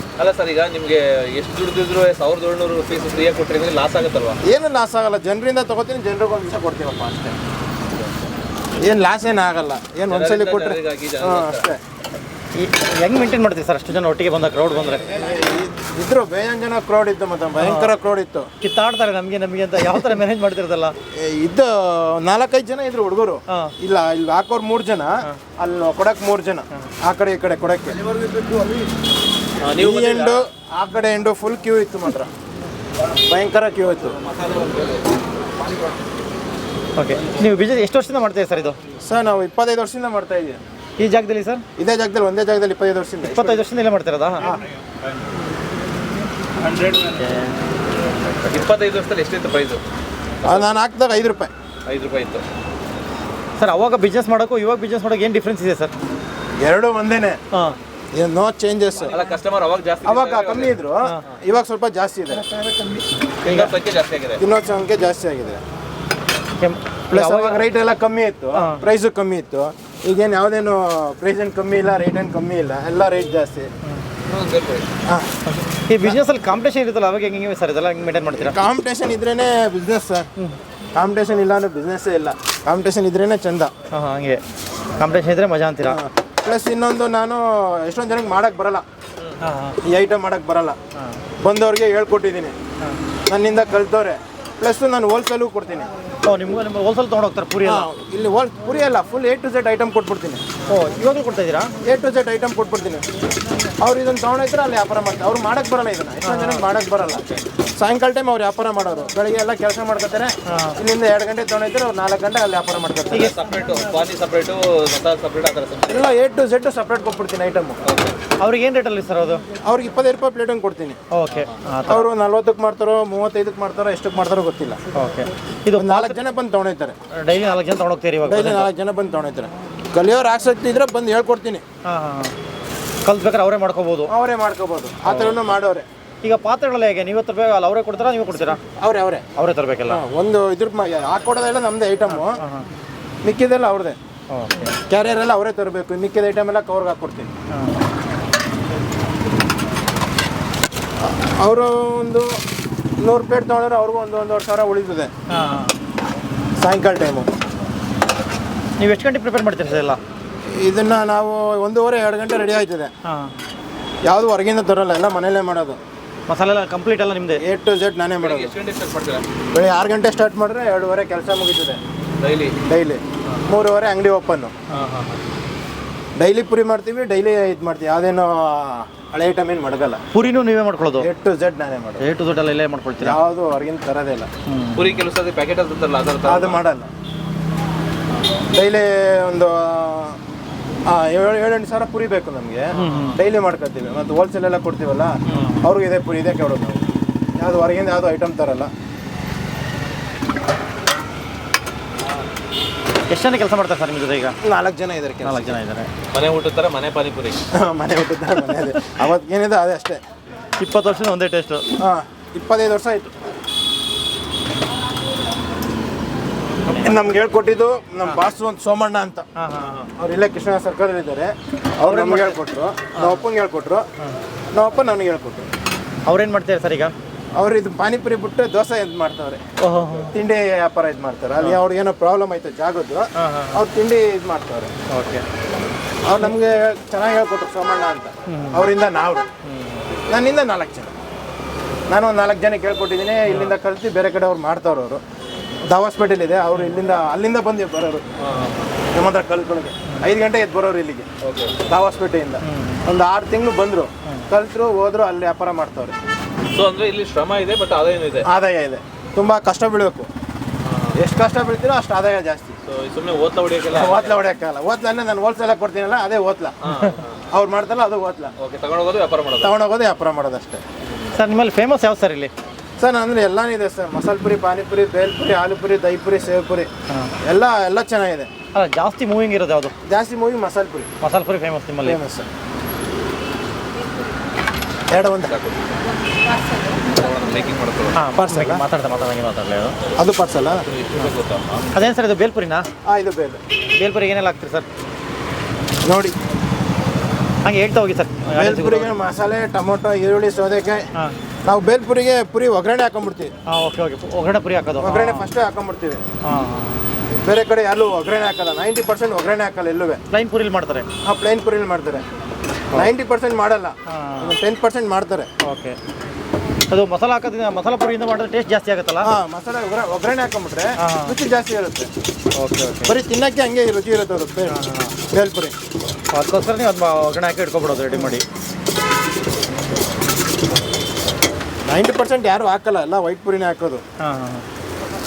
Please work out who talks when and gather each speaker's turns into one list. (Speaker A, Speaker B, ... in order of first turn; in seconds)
Speaker A: 0.2-4.4, 10.1-11.7, 29.6-30.4, 34.5-34.9, 46.6-47.2, 48.5-49.8, 51.9-52.4, 59.1-60.8, 63.4-64.4, 74.3-74.8, 113.1-116.1, 117.9-118.1, 121.3-121.5, 168.2-169.2, 172.2-172.6, 174.7-175.2, 184.7-186.6, 192.7-193.2, 206.1-207.4, 248.2-248.7, 251.2-251.5, 256.5-258.2, 260.6-260.9, 262.7-264.2, 266.6-267.2, 268.4-269.5, 285.1-285.6, 286.6-288.0, 290.6-291.7
Speaker B: 4.4-7.3, 8.8-11.8, 15.1-18.5, 21.1-28.0, 29.8-32.3, 33.3-34.2, 39.0-40.6, 41.8-43.6, 50.4-51.5, 56.6-57.4, 58.1-59.1, 60.0-62.4, 64.4-65.6, 67.1-73.7, 78.3-80.3, 80.9-83.7, 85.8-88.8, 89.8-90.8, 91.4-92.5, 93.3-95.9, 97.6-100.4, 101.8-103.0, 103.8-113.3, 115.9-117.8, 119.6-121.0, 121.9-124.8, 125.8-126.9, 128.2-131.6, 134.1-135.8, 138.8-139.2, 139.9-142.4, 143.2-144.0, 144.9-147.3, 151.0-152.3, 153.0-155.1, 156.6-157.3, 160.6-162.9, 164.0-165.8, 167.4-168.5, 169.5-171.8, 172.6-174.5, 176.2-180.0, 181.0-182.0, 183.0-184.3, 186.2-186.9, 188.5-190.2, 190.8-196.8, 197.4-198.7, 204.4-205.6, 207.5-210.0, 211.8-213.1, 216.7-219.2, 220.0-223.8, 224.5-225.4, 227.3-229.4, 230.1-234.7, 236.0-239.2, 240.1-240.9, 241.9-245.0, 245.7-248.0, 248.9-251.1, 251.7-255.9, 258.2-260.1, 260.9-262.5, 263.7-266.6, 267.3-268.3, 269.4-270.6, 272.8-276.7, 277.2-278.3, 279.9-280.9, 281.8-282.3, 284.9-285.3, 288.1-288.6, 290.0-290.6, 292.8-293.4, 295.8-296.1, 298.4-300.9, 301.4-303.3, 304.8-306.0, 307.2-310.0, 311.0-312.0, 312.7-315.3, 319.0-321.9, 322.9-324.6, 325.1-325.5, 331.6-333.8
Speaker C: 12.5-15.1, 17.6-17.9, 18.6-20.9, 37.0-38.8, 41.0-41.6, 43.2-44.5, 47.2-47.5, 53.6-55.9, 63.5-63.7, 66.6-67.6, 68.5-68.8, 75.5-78.5, 83.9-84.4, 85.0-86.0, 89.4-89.8, 96.2-97.9, 100.7-101.7, 106.2-106.6, 110.5-110.7, 113.1-113.3, 118.4-119.4, 121.1-122.1, 124.9-126.2, 127.2-128.7, 131.8-132.3, 133.0-134.1, 135.1-135.4, 136.2-138.6, 139.4-140.0, 142.1-142.7, 144.3-144.7, 147.5-147.8, 155.3-155.7, 158.8-160.0, 163.1-163.3, 166.3-167.4, 180.1-181.1, 182.0-183.2, 184.5-184.9, 192.7-193.2, 203.1-204.3, 205.2-205.9, 210.6-211.7, 219.4-219.8, 221.9-222.4, 222.9-223.2, 226.0-226.9, 229.6-230.1, 233.2-233.6, 234.9-235.2, 238.3-238.7, 239.4-239.8, 243.3-243.5, 252.4-252.8, 271.1-272.3, 278.5-279.7, 281.0-282.0, 287.9-289.8, 291.7-292.7, 293.8-294.7, 297.4-298.9, 303.5-305.2, 306.2-306.9, 310.1-310.9, 313.9-314.3, 315.4-315.8, 316.7-319.1, 320.8-321.1, 322.4-322.9, 324.5-324.9, 326.1-328.2, 334.0-334.4